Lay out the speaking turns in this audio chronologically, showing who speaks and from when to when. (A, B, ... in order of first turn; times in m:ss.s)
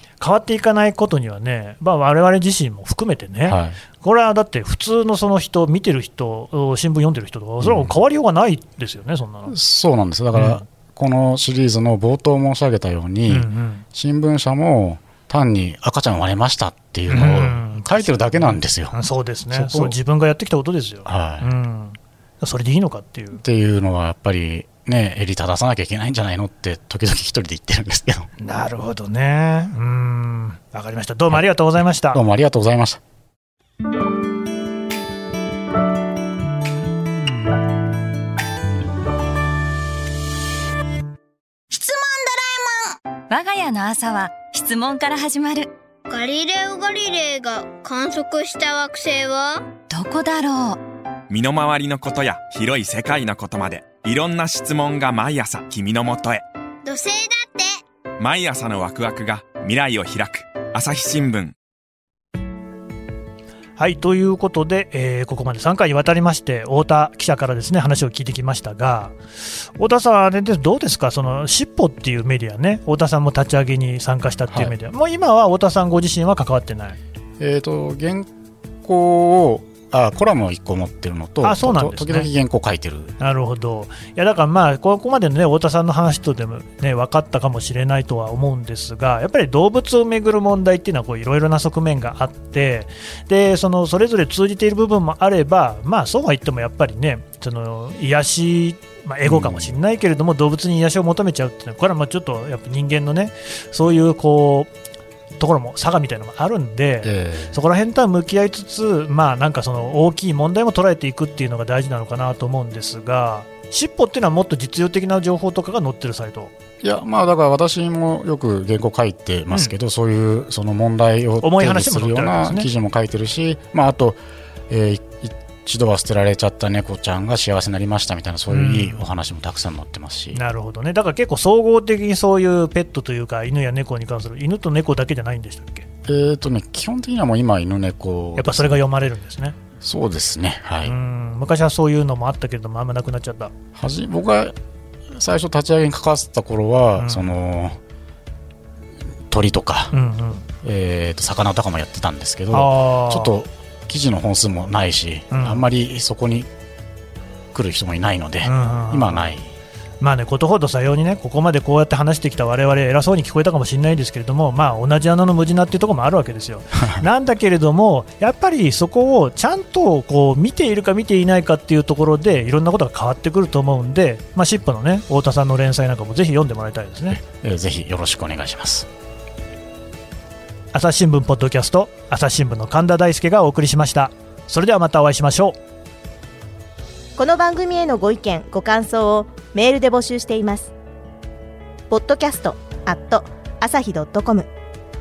0:00.2-0:09.6 A
0:03.5-0:03.8 B
0:07.6-0:08.0 B
0:09.5-0:19.0 B
0:10.3-0:10.6 A
0:13.3-0:13.8 A
0:17.1-0:23.4 A
0:19.5-0:20.0 B
0:21.0-0:21.5 B
0:23.4-0:28.3 B
0:28.4-0:32.2 A
0:32.1-0:33.0 B
0:41.7-0:42.6 C
0:43.3-0:45.7 C
0:46.1-0:49.6 D
0:49.9-0:50.8 C
0:51.3-0:56.4 E
0:56.8-0:57.8 D
0:58.2-1:01.6 E
1:03.8-1:17.0 A
1:17.4-1:18.3 B
1:18.8-1:23.2 B
1:21.4-1:22.3 A
1:23.2-1:44.7 A
1:39.2-1:39.8 B
1:45.4-1:56.5 A
1:47.0-1:47.6 B
1:56.8-2:10.4 B
2:01.4-2:02.7 A
2:08.5-2:09.0 A
2:10.3-2:15.9 A
2:16.0-2:18.8 B
2:18.4-2:19.6 A
2:19.8-2:21.0 B
2:20.8-2:23.5 A
2:23.8-2:24.6 B
2:25.1-2:27.8 B
2:27.0-2:27.3 A
2:29.3-2:30.0 B
2:29.9-2:30.4 A
2:30.6-2:36.5 B
2:32.5-2:33.4 A
2:35.3-2:35.6 A
2:37.5-2:39.5 B
2:38.4-2:39.3 A
2:40.0-2:57.2 A
2:57.1-2:58.9 B
3:00.7-3:05.6 A
3:07.2-3:10.7 F
3:11.9-3:14.5 F